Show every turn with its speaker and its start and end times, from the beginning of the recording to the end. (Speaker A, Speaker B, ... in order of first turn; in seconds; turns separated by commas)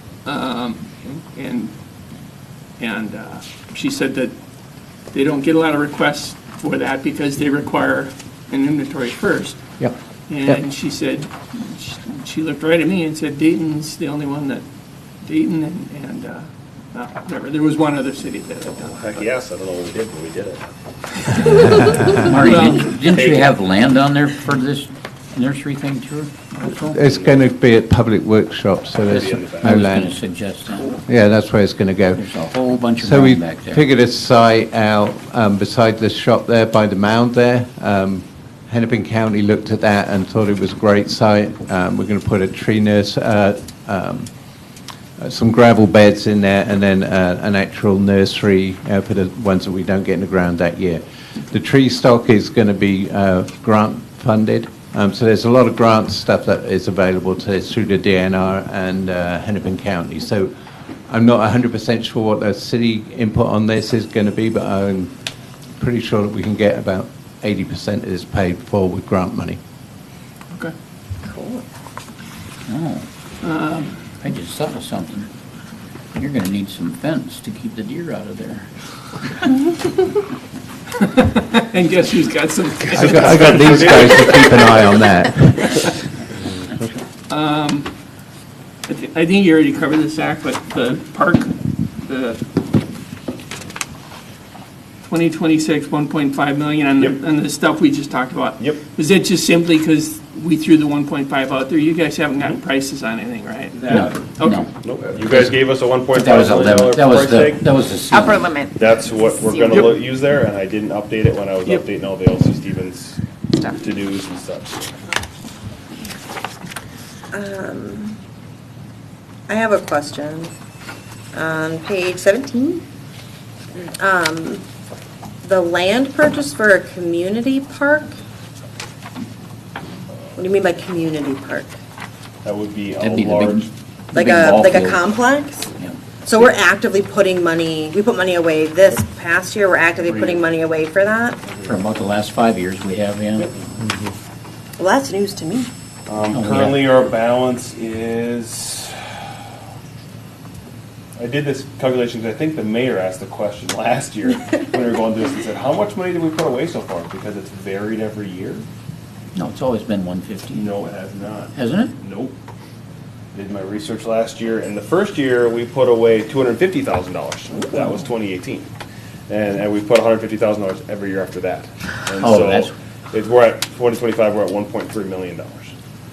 Speaker A: 0.2-1.7, Speaker A: 2.8-4.3, Speaker A: 5.1-9.6, Speaker A: 10.3-14.6, Speaker A: 15.2-19.2, Speaker B: 18.8-20.7, Speaker C: 21.8-22.1, Speaker D: 21.8-27.0, Speaker A: 22.2-23.1, Speaker B: 23.1-23.5, Speaker C: 26.9-30.2, Speaker B: 27.0-27.4, Speaker D: 29.1-31.0, Speaker B: 29.2-29.8, Speaker C: 31.1-32.2, Speaker D: 32.1-33.9, Speaker C: 33.0-44.3, Speaker C: 45.2-60.5, Speaker C: 61.1-65.1, Speaker C: 65.8-69.6, Speaker E: 71.2-71.6, Speaker D: 72.7-73.0, Speaker A: 73.4-73.9, Speaker D: 74.2-75.3, Speaker D: 76.1-78.7, Speaker A: 81.0-84.2, Speaker C: 82.9-85.9, Speaker B: 82.9-84.7, Speaker A: 87.3-87.9, Speaker A: 88.9-92.4, Speaker A: 95.0-104.6, Speaker D: 103.9-104.7, Speaker B: 104.8-107.7, Speaker D: 105.2-108.6, Speaker B: 108.8-113.2, Speaker B: 113.8-114.9, Speaker E: 117.3-118.2, Speaker E: 119.5-120.5, Speaker E: 121.3-122.8, Speaker E: 123.8-124.6, Speaker E: 125.4-128.2, Speaker E: 130.4-131.8, Speaker B: 132.4-133.7, Speaker D: 133.0-135.1, Speaker E: 134.1-135.7, Speaker E: 136.2-141.4, Speaker D: 141.6-143.5, Speaker E: 144.8-145.7, Speaker B: 146.1-149.2, Speaker D: 146.3-146.9, Speaker B: 151.2-158.7, Speaker D: 159.3-160.8, Speaker B: 160.5-162.3, Speaker D: 161.5-161.9, Speaker B: 163.3-168.7, Speaker B: 169.3-175.7, Speaker D: 172.2-172.7